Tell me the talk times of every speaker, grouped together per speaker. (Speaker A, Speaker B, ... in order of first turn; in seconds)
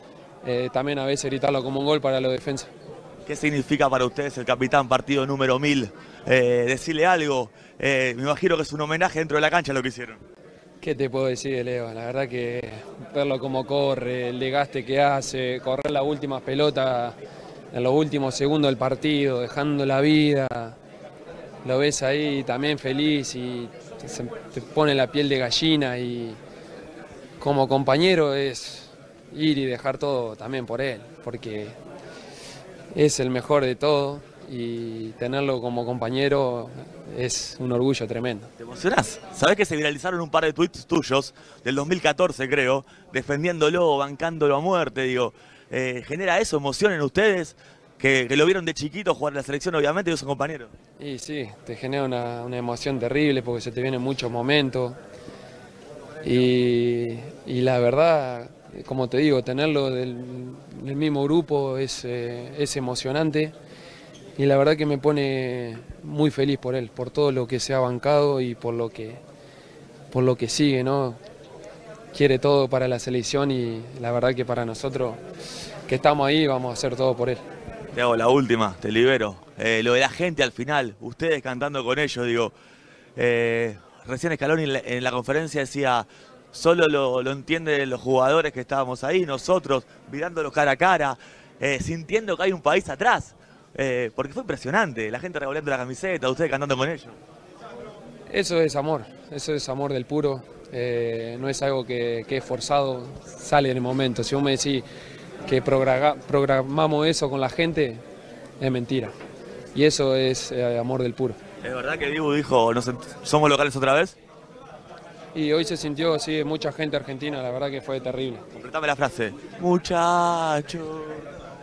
Speaker A: 0.4-2.7, 10.8-17.1, 17.7-20.8, 21.6-26.4, 27.4-31.7, 32.9-38.5, 51.0-55.0, 56.2-63.5, 64.4-69.2, 70.1-71.2, 72.1-75.2, 75.9-77.4, 98.3-104.8, 105.5-108.0, 108.6-109.1, 109.7-111.4, 115.3-118.5
Speaker B: 3.3-10.2, 38.6-50.7, 77.9-82.5, 83.2-97.2, 111.6-114.2, 118.5-121.2